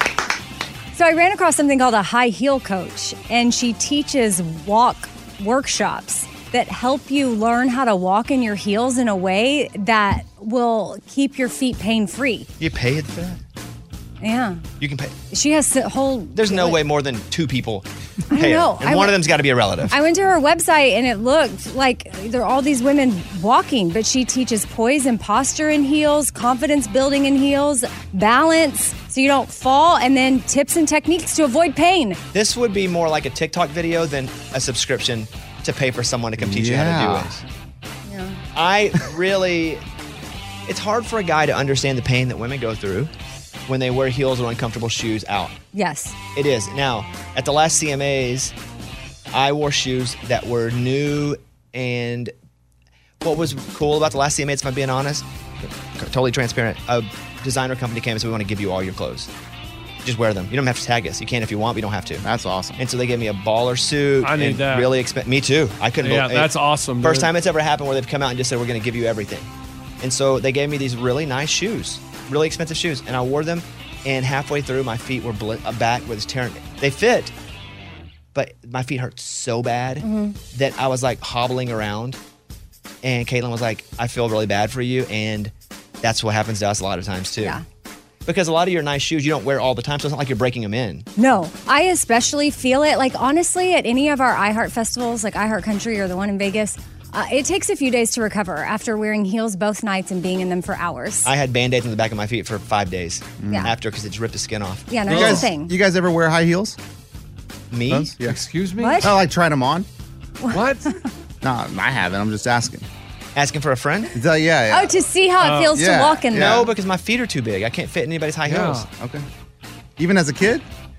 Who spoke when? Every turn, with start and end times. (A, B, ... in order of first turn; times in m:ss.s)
0:00.9-0:12.5 A
0:12.6-0:13.4 B
0:14.2-0:14.6 A
0:14.8-0:15.2 B
0:15.3-0:16.8 A
0:16.4-0:19.9 B
0:18.3-0:19.2 A
0:19.9-0:32.2 A
0:32.3-0:37.4 B
0:36.4-0:37.3 C
0:38.1-0:38.4 A
0:38.6-0:39.8 B
0:40.7-0:43.1 B
0:43.7-0:45.6 B
0:45.7-0:46.2 A
0:46.4-0:48.5 B
0:49.3-0:52.3 B
0:53.2-0:59.3 B
1:00.0-1:02.2 B
1:02.2-1:02.8 C
1:02.8-1:09.5 B
1:04.2-1:04.9 D
1:06.0-1:07.3 D
1:10.0-1:17.3 B
1:18.3-1:22.2 B
1:20.0-1:20.4 A
1:23.0-1:27.6 B
1:27.4-1:27.6 A
1:28.3-1:31.1 B
1:31.2-1:41.3 A
1:41.2-1:45.3 B
1:43.4-1:43.7 C
1:44.9-1:45.8 A
1:45.1-1:46.8 C
1:47.7-1:48.1 B
1:47.9-1:48.4 C
1:48.2-1:49.1 D
1:48.8-1:49.1 A
1:49.0-1:49.9 C
1:50.4-1:51.0 A
1:50.5-1:50.8 D
1:51.4-1:52.9 C
1:53.4-1:54.1 B
1:54.1-1:55.0 C
1:54.7-1:56.7 A
1:55.4-1:55.8 D
1:55.7-1:56.6 C
1:56.3-1:58.8 B
1:58.4-1:58.9 D
1:58.9-1:59.2 C
2:00.0-2:00.7 C